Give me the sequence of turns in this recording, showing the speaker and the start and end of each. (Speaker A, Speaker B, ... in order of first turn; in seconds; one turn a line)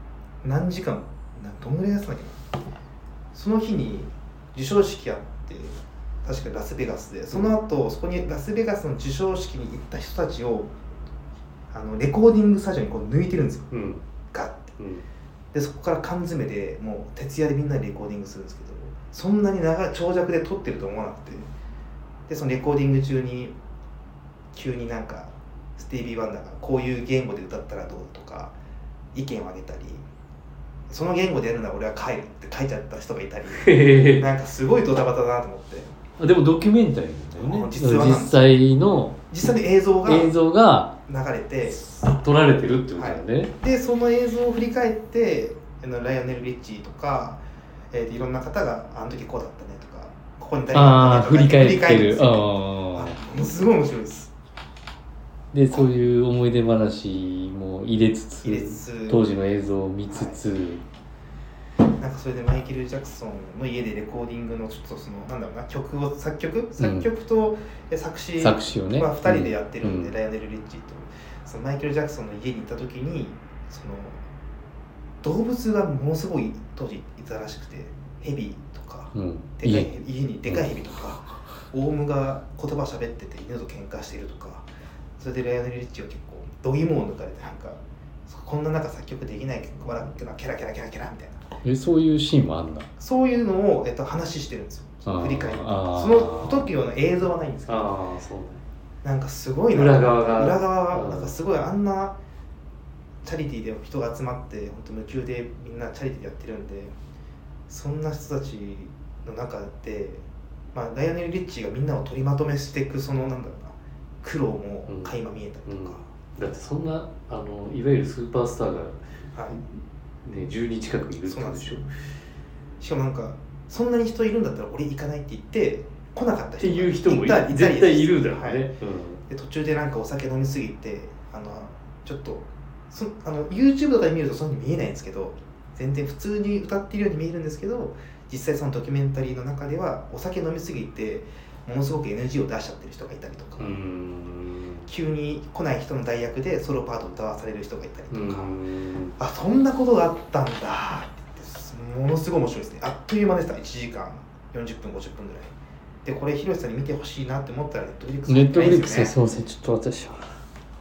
Speaker A: 0.4-2.4
Speaker A: 3.3-10.7
Speaker A: 11.7-13.7
Speaker B: 13.7-14.0
Speaker A: 14.3-14.7
Speaker B: 14.8-15.1
Speaker A: 15.5-21.5
Speaker A: 22.3-23.5
Speaker A: 24.5-28.6
Speaker A: 29.1-30.0
Speaker A: 30.9-35.9
Speaker B: 33.5-34.3
Speaker B: 36.2-39.2
Speaker A: 37.3-38.4
Speaker A: 39.3-40.3
Speaker B: 40.0-41.0
Speaker A: 41.1-41.8
Speaker B: 41.8-43.5
Speaker A: 42.9-54.3
Speaker B: 50.7-53.2
Speaker B: 55.5-60.8
Speaker A: 58.4-59.2
Speaker A: 60.1-60.4
Speaker A: 62.0-74.2
Speaker B: 66.8-67.1
Speaker B: 68.4-70.1
Speaker A: 75.2-84.7
Speaker B: 79.1-79.9
Speaker B: 80.5-80.7
Speaker A: 85.2-91.4
Speaker B: 91.6-92.9
Speaker A: 93.0-97.9
Speaker B: 95.0-96.7
Speaker B: 97.7-98.6
Speaker A: 99.0-102.2
Speaker B: 99.7-101.3
Speaker A: 103.2-106.9
Speaker A: 107.7-116.0
Speaker B: 114.9-119.0
Speaker A: 119.3-119.6
Speaker B: 120.2-121.9
Speaker A: 121.2-121.8
Speaker A: 122.8-128.7
Speaker B: 126.6-129.2
Speaker A: 129.3-143.8
Speaker B: 143.6-144.9
Speaker A: 144.9-148.6
Speaker B: 148.1-149.2
Speaker A: 149.2-159.1
Speaker B: 158.3-160.3